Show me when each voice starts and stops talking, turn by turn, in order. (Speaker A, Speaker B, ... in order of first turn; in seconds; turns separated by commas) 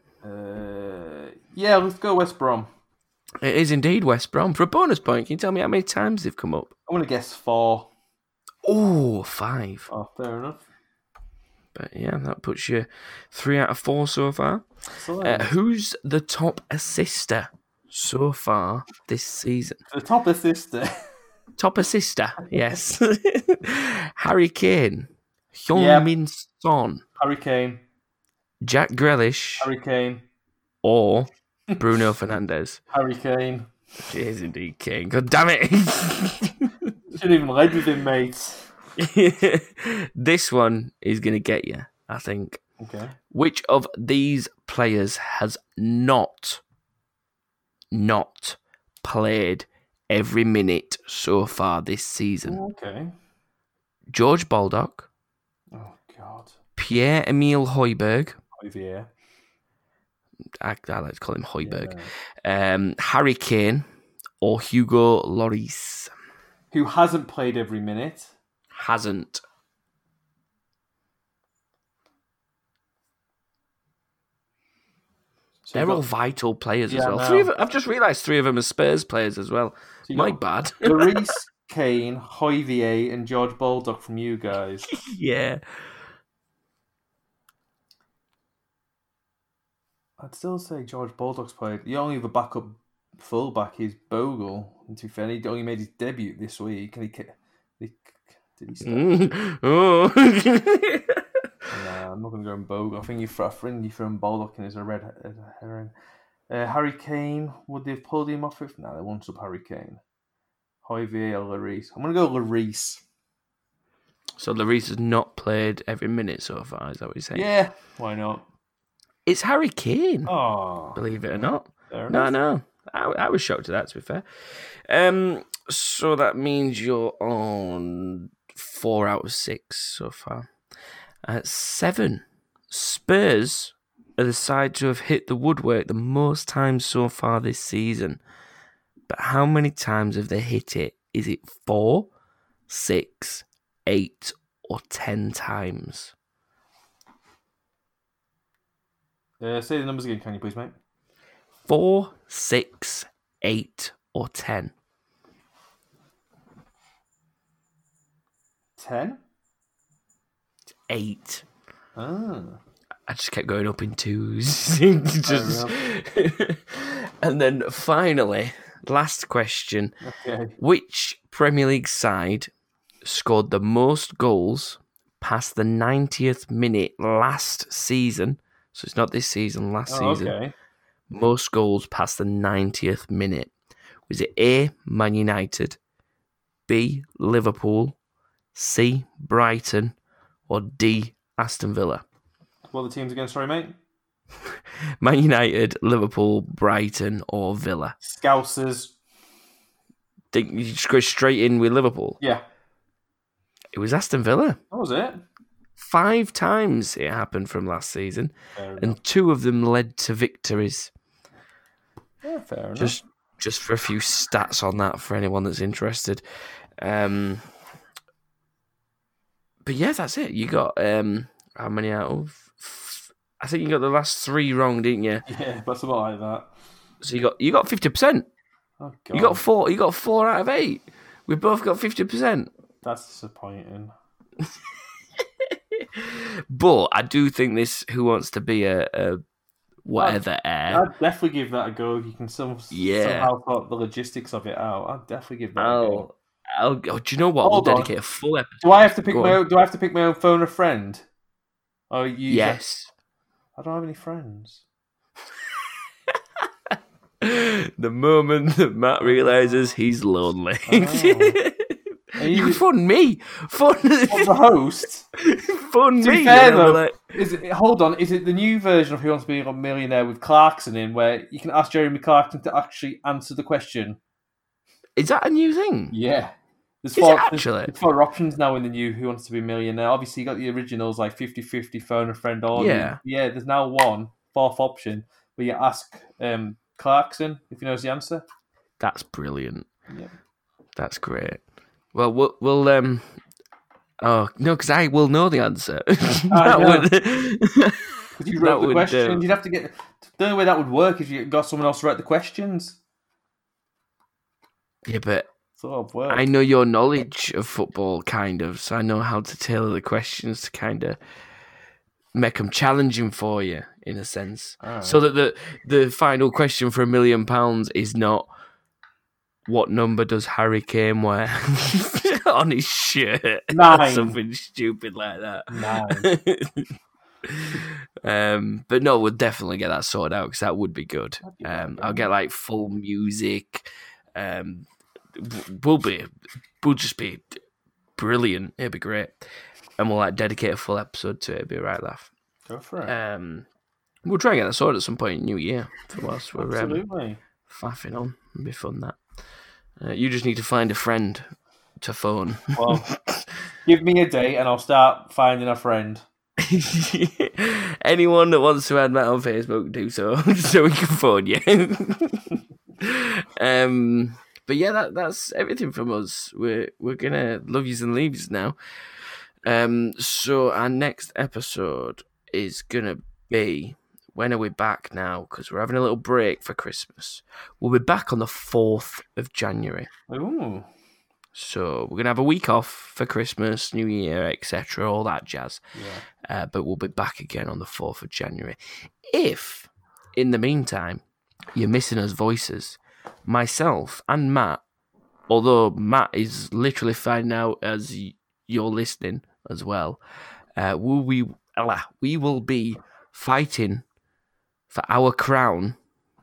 Speaker A: 0.2-2.7, Speaker B: 3.4-6.7, Speaker A: 6.9-7.9, Speaker B: 8.7-9.9, Speaker A: 9.9-10.6, Speaker B: 11.7-14.7, Speaker A: 14.9-15.5, Speaker B: 15.2-19.8, Speaker A: 19.9-21.1, Speaker B: 21.6-27.0, Speaker A: 25.7-26.1, Speaker A: 27.2-27.8, Speaker B: 28.6-29.7, Speaker A: 29.6-30.2, Speaker B: 30.8-32.8, Speaker A: 32.9-33.7, Speaker B: 34.1-36.9, Speaker A: 37.1-38.7, Speaker B: 39.0-42.6, Speaker A: 42.8-43.2, Speaker B: 43.3-46.6, Speaker B: 47.9-52.6, Speaker A: 52.4-53.1, Speaker B: 54.1-55.1, Speaker A: 55.7-56.6, Speaker B: 56.8-58.4, Speaker A: 58.6-59.1, Speaker B: 60.6-63.9, Speaker A: 61.6-62.1, Speaker B: 64.4-66.1, Speaker A: 66.7-68.3, Speaker B: 68.7-69.4, Speaker A: 75.6-76.0, Speaker B: 75.7-81.1, Speaker A: 76.9-77.5, Speaker A: 80.1-84.9, Speaker B: 84.9-85.6, Speaker A: 90.2-99.1, Speaker B: 98.8-101.5, Speaker A: 101.7-105.9, Speaker A: 106.5-110.0, Speaker A: 110.8-113.0, Speaker B: 114.4-117.5, Speaker A: 117.3-118.5, Speaker B: 119.3-120.3, Speaker A: 120.3-121.0, Speaker B: 121.0-130.5, Speaker A: 121.9-122.3, Speaker B: 131.2-138.2, Speaker B: 139.1-142.1, Speaker B: 142.7-146.1, Speaker A: 149.4-150.8, Speaker B: 151.7-154.7, Speaker A: 158.8-159.2, Speaker B: 160.9-161.4, Speaker A: 162.0-162.6, Speaker B: 163.1-169.9, Speaker A: 165.2-165.8, Speaker A: 170.0-170.6, Speaker B: 170.6-172.5, Speaker B: 173.0-180.3, Speaker A: 179.9-180.5, Speaker B: 181.1-183.5, Speaker B: 184.1-185.8, Speaker B: 186.7-188.0, Speaker B: 188.5-189.9, Speaker B: 190.5-192.0, Speaker A: 192.7-193.8, Speaker B: 194.5-197.9, Speaker A: 198.0-199.0, Speaker B: 200.3-202.2, Speaker B: 203.7-204.6, Speaker A: 204.7-205.2, Speaker B: 205.8-210.9, Speaker A: 208.6-209.0, Speaker A: 212.2-213.0, Speaker B: 212.8-216.2, Speaker B: 216.8-217.5, Speaker B: 219.7-225.2, Speaker A: 225.3-226.5, Speaker B: 227.0-228.3, Speaker A: 228.8-229.4, Speaker B: 229.1-232.5, Speaker A: 232.8-233.9, Speaker B: 234.4-234.7, Speaker B: 235.2-239.2, Speaker B: 239.8-240.8, Speaker A: 240.0-246.1, Speaker B: 242.7-243.3, Speaker B: 245.6-249.4, Speaker A: 247.4-247.9, Speaker A: 248.6-251.1, Speaker A: 251.9-252.6, Speaker B: 252.3-252.9, Speaker A: 253.6-254.6, Speaker B: 256.7-264.4, Speaker A: 259.0-259.7, Speaker A: 260.7-261.4, Speaker A: 262.2-262.6, Speaker A: 264.1-265.1, Speaker B: 265.1-267.0, Speaker A: 266.0-274.0, Speaker B: 275.0-275.9, Speaker A: 275.9-288.2, Speaker B: 277.0-277.7, Speaker B: 282.6-283.0, Speaker B: 288.8-289.7, Speaker B: 290.8-291.4, Speaker B: 291.9-293.1, Speaker B: 294.0-299.3, Speaker A: 296.3-296.9, Speaker A: 298.2-302.8, Speaker B: 304.9-305.3, Speaker A: 305.6-306.2, Speaker B: 306.1-311.0, Speaker B: 312.1-318.3, Speaker A: 314.6-315.0, Speaker B: 319.5-326.7, Speaker A: 323.5-324.2, Speaker A: 325.5-326.1, Speaker B: 327.2-336.1, Speaker A: 331.2-332.1, Speaker B: 336.6-337.4, Speaker B: 338.0-339.2, Speaker B: 339.8-342.1, Speaker A: 342.5-342.9, Speaker B: 342.9-343.5, Speaker B: 344.0-346.8, Speaker A: 346.4-347.2, Speaker B: 347.5-349.0, Speaker B: 349.8-351.3, Speaker B: 351.8-353.2, Speaker A: 352.5-352.9, Speaker A: 353.6-356.0, Speaker B: 356.4-368.6, Speaker B: 369.4-379.9, Speaker A: 380.1-380.7, Speaker B: 381.3-385.6, Speaker A: 385.8-386.1, Speaker B: 386.2-391.0, Speaker B: 391.5-394.6, Speaker B: 395.3-400.0, Speaker B: 400.6-403.9, Speaker B: 404.7-405.8